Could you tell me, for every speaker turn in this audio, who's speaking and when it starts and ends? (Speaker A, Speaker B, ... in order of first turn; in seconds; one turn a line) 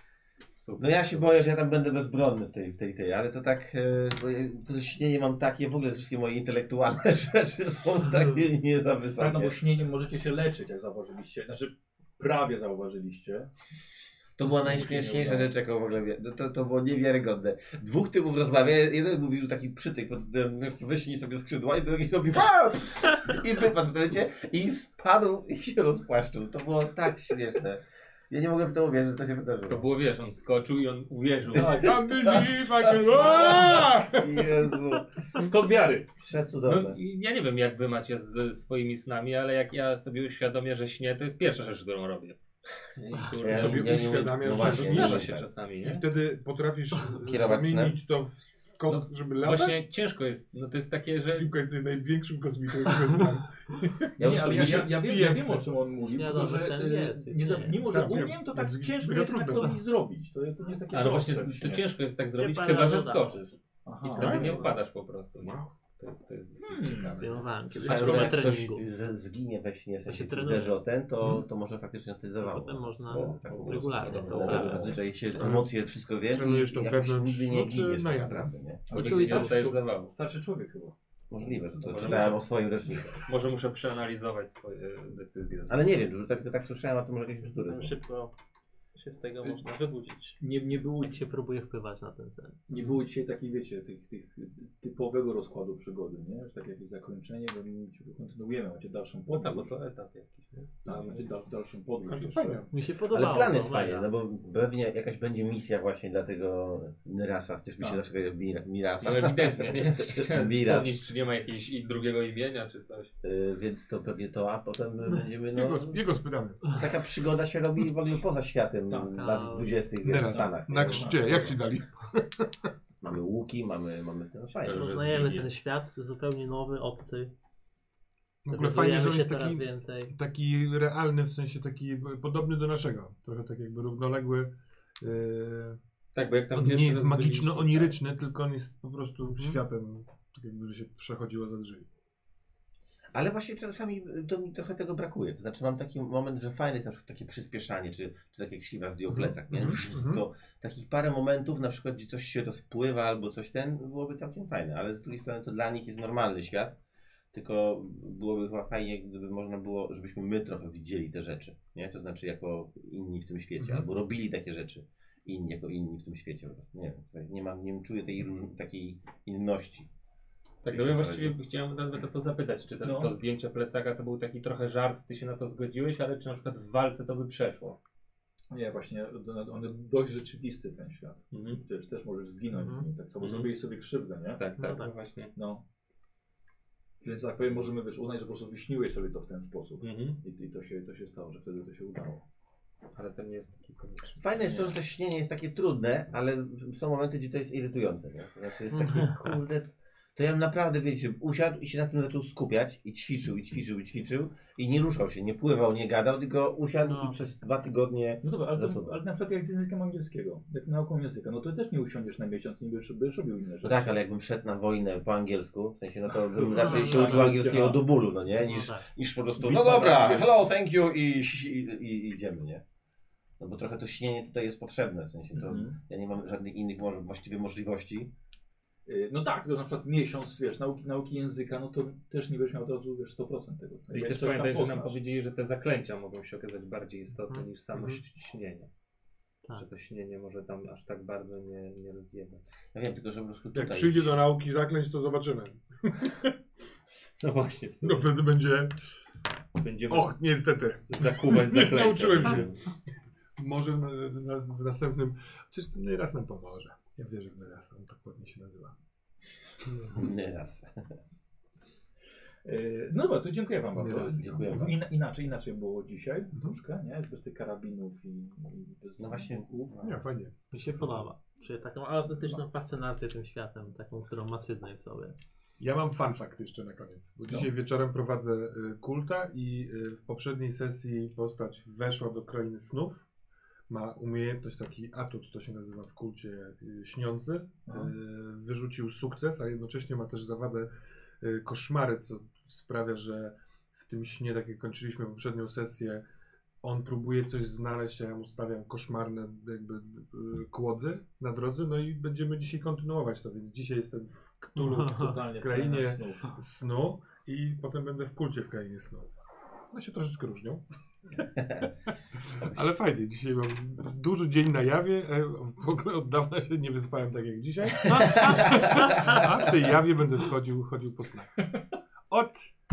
Speaker A: 0.5-1.4
Speaker B: 0.8-9.6
Speaker C: 9.2-13.5
Speaker B: 14.4-29.9
Speaker C: 14.4-15.5
Speaker A: 29.7-31.9
Speaker D: 31.6-34.6
Speaker B: 31.6-35.1
Speaker A: 35.4-36.1
Speaker B: 36.2-37.0
Speaker A: 36.6-42.4
Speaker A: 43.0-46.0
Speaker B: 43.4-45.5
Speaker D: 43.5-49.9
Speaker B: 47.2-48.0
Speaker A: 48.9-51.5
Speaker D: 51.3-53.9
Speaker C: 54.2-61.9
Speaker B: 54.2-54.9
Speaker D: 54.6-55.6
Speaker E: 56.1-57.9
Speaker D: 57.9-59.8
Speaker A: 60.9-68.4
Speaker E: 62.4-63.4
Speaker C: 63.9-64.6
Speaker E: 64.2-64.7
Speaker D: 64.2-64.8
Speaker D: 65.4-65.7
Speaker C: 66.6-67.2
Speaker E: 67.2-68.8
Speaker B: 67.7-78.8
Speaker E: 70.1-70.8
Speaker E: 72.4-75.0
Speaker A: 73.1-75.0
Speaker C: 74.3-75.0
Speaker D: 75.3-78.5
Speaker C: 78.9-81.0
Speaker E: 78.9-79.5
Speaker A: 78.9-80.1
Speaker B: 81.3-83.2
Speaker A: 81.8-82.5
Speaker A: 83.2-85.9
Speaker B: 85.7-88.0
Speaker E: 87.5-88.3
Speaker E: 89.0-90.4
Speaker C: 90.4-91.2
Speaker E: 91.0-92.6
Speaker C: 92.7-99.7
Speaker A: 99.3-101.3
Speaker C: 100.8-102.7
Speaker D: 102.1-102.7
Speaker E: 102.7-104.1
Speaker B: 103.1-111.0
Speaker A: 109.0-113.1
Speaker B: 113.2-116.0
Speaker D: 115.5-116.8
Speaker B: 116.7-121.2
Speaker C: 118.9-119.2
Speaker E: 119.1-119.8
Speaker D: 120.0-122.7
Speaker C: 120.1-121.6
Speaker B: 123.0-125.0
Speaker A: 124.6-125.5
Speaker E: 124.7-127.3
Speaker D: 128.4-135.8
Speaker E: 128.5-130.1
Speaker A: 136.1-138.0
Speaker D: 136.5-141.9
Speaker B: 143.1-156.8
Speaker D: 149.1-150.2
Speaker B: 157.3-169.9
Speaker D: 163.6-163.9
Speaker A: 170.6-177.8
Speaker B: 170.7-171.3
Speaker C: 172.8-173.2
Speaker C: 178.5-184.4
Speaker A: 181.3-181.6
Speaker E: 182.6-182.9
Speaker A: 183.2-183.5
Speaker A: 184.4-185.3
Speaker E: 184.6-184.9
Speaker C: 185.4-185.6
Speaker C: 187.0-192.2
Speaker A: 189.8-190.2
Speaker A: 192.9-194.8
Speaker B: 194.2-209.0
Speaker E: 198.7-199.3
Speaker E: 206.8-207.2
Speaker C: 208.2-214.0
Speaker B: 213.6-222.6
Speaker C: 216.1-217.8
Speaker E: 216.4-217.4
Speaker E: 218.4-218.9
Speaker C: 219.4-220.5
Speaker B: 223.4-228.1
Speaker C: 225.3-225.8
Speaker C: 228.9-235.0
Speaker A: 233.9-238.7
Speaker D: 237.7-238.0
Speaker A: 239.5-242.4
Speaker B: 242.7-244.3
Speaker D: 243.6-246.3
Speaker A: 247.2-248.1
Speaker D: 247.8-248.7
Speaker A: 249.6-250.2
Speaker D: 249.9-252.5
Speaker A: 250.9-252.6
Speaker D: 253.4-258.8
Speaker D: 259.7-260.0
Speaker B: 259.9-260.7
Speaker C: 262.4-269.8
Speaker D: 263.8-264.8
Speaker B: 264.2-264.8
Speaker B: 269.0-270.0
Speaker D: 269.8-270.9
Speaker E: 270.5-275.1
Speaker D: 275.6-283.1
Speaker D: 283.7-290.7
Speaker C: 287.6-287.9
Speaker D: 291.2-296.0
Speaker D: 296.6-309.1
Speaker E: 304.6-305.2
Speaker C: 304.8-306.4
Speaker D: 309.7-310.6
Speaker D: 312.4-321.4
Speaker B: 318.2-319.2
Speaker D: 322.1-322.5